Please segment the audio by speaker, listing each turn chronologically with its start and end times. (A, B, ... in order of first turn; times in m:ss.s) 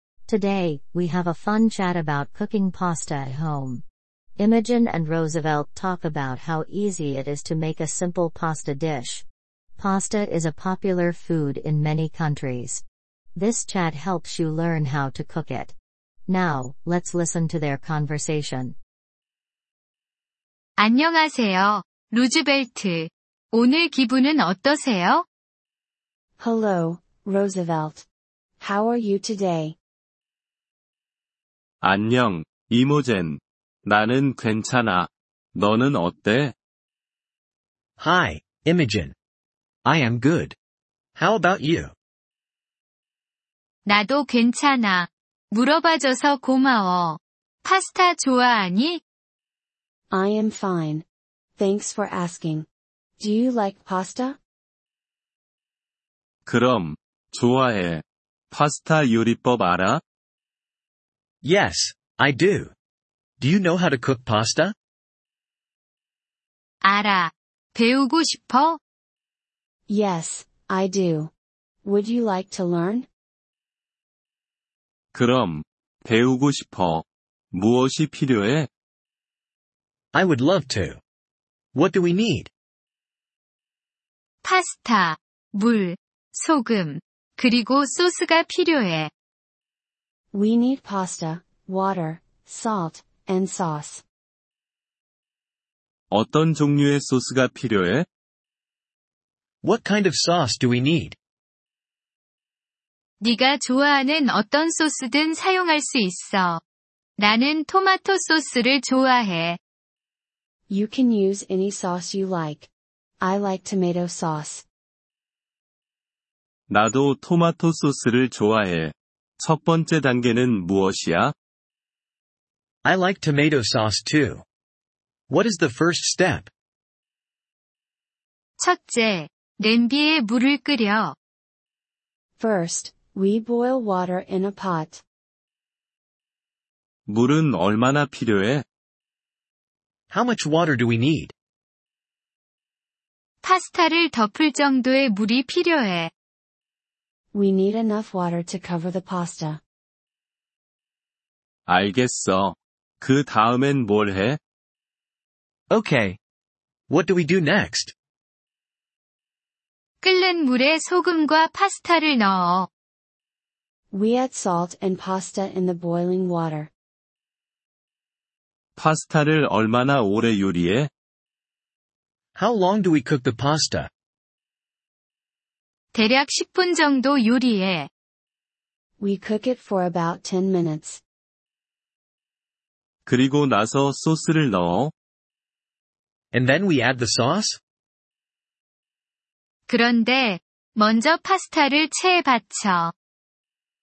0:00.3-0:03.8 A
0:04.4-0:09.2 A
0:09.8-0:12.8 A
0:13.4-0:15.8 A
0:16.3-0:18.8 A
0:20.8-0:25.3 B
0:26.4-0:28.1 C
0:28.6-0:29.8 C
0:31.8-0:36.6 D
0:38.0-0:39.1 E
0:39.8-0:40.6 E
0:41.2-0:41.9 E
0:43.9-0:49.0 B
0:50.1-0:51.0 C
0:51.6-0:52.7 C
0:53.2-0:54.4 C
0:56.4-1:00.0 D
1:01.4-1:02.7 E
1:03.4-1:04.8 E
1:06.8-1:08.8 B
1:09.9-1:11.3 C
1:11.8-1:13.1 C
1:15.1-1:18.7 D
1:20.1-1:21.0 E
1:21.7-1:22.5 E
1:24.4-1:29.1 B
1:30.3-1:34.0 C
1:36.1-1:38.1 D
1:39.6-1:41.2 E
1:43.2-1:46.6 B
1:47.2-1:49.6 B
1:50.7-1:52.7 C
1:53.2-1:54.7 C
1:56.7-2:01.3 D
2:02.8-2:04.4 E
2:05.3-2:06.5 E
2:08.6-2:11.2 B
2:12.4-2:15.0 C
2:17.1-2:18.6 D
2:20.1-2:21.3 E
2:23.4-2:26.1 B
2:27.3-2:29.6 C
2:31.7-2:34.4 D
2:35.7-2:36.2 E
2:36.9-2:37.9 E
2:40.0-2:42.7 B
2:43.9-2:46.7 C
2:48.8-2:50.9 D
2:52.4-2:53.9 E
2:55.9-2:57.9 B
2:59.0-3:01.0 C
3:03.0-3:04.9 D
3:06.3-3:07.6 E
3:09.7-3:12.9 B